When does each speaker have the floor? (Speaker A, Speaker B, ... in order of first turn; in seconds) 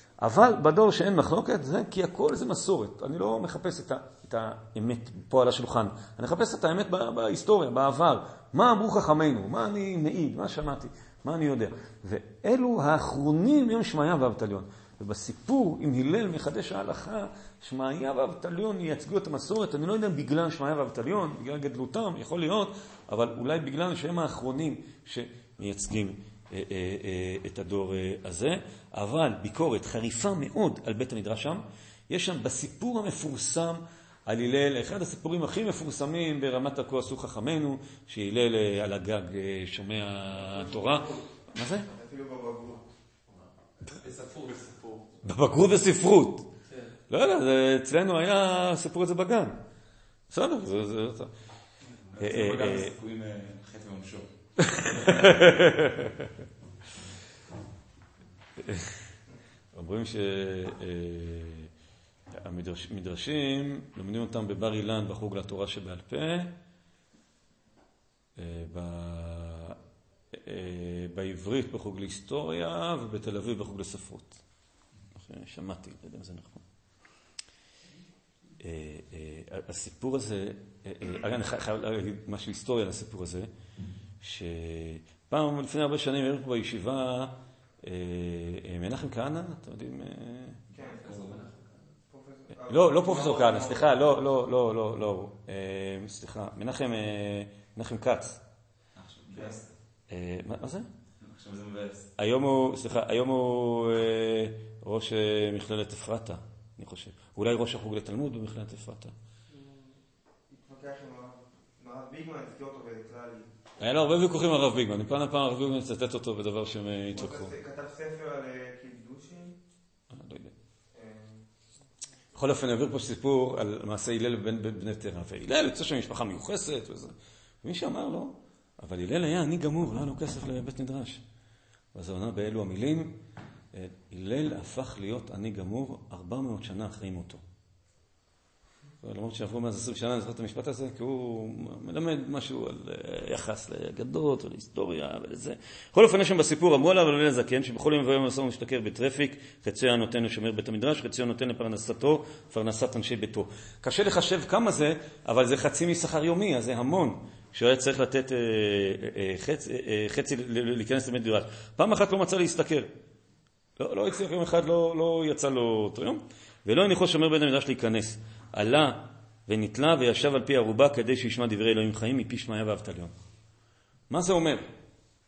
Speaker A: 0.2-41.9, 45.2-46.5, 47.1-49.6, 50.3-51.3, 52.2-52.9, 54.6-56.3, 58.6-59.0, 59.7-61.7, 62.4-66.5, 68.4-69.8, 70.3-74.4, 75.2-76.6, 78.6-83.5, 84.2-90.6, 92.7-98.4, 100.1-100.9, 102.2-109.1, 113.8-117.5, 120.1-120.5, 122.3-131.2, 131.9-133.2, 133.7-137.4, 139.0-162.9, 163.8-173.1, 174.1-174.7
Speaker B: 41.9-42.9, 90.7-91.3, 92.1-93.9, 109.5-110.0, 110.5-113.5, 117.1-119.6, 120.9-121.4
Speaker C: 43.8-45.2, 52.1-54.3, 54.9-55.2, 90.7-91.7, 98.9-99.7, 101.2-102.1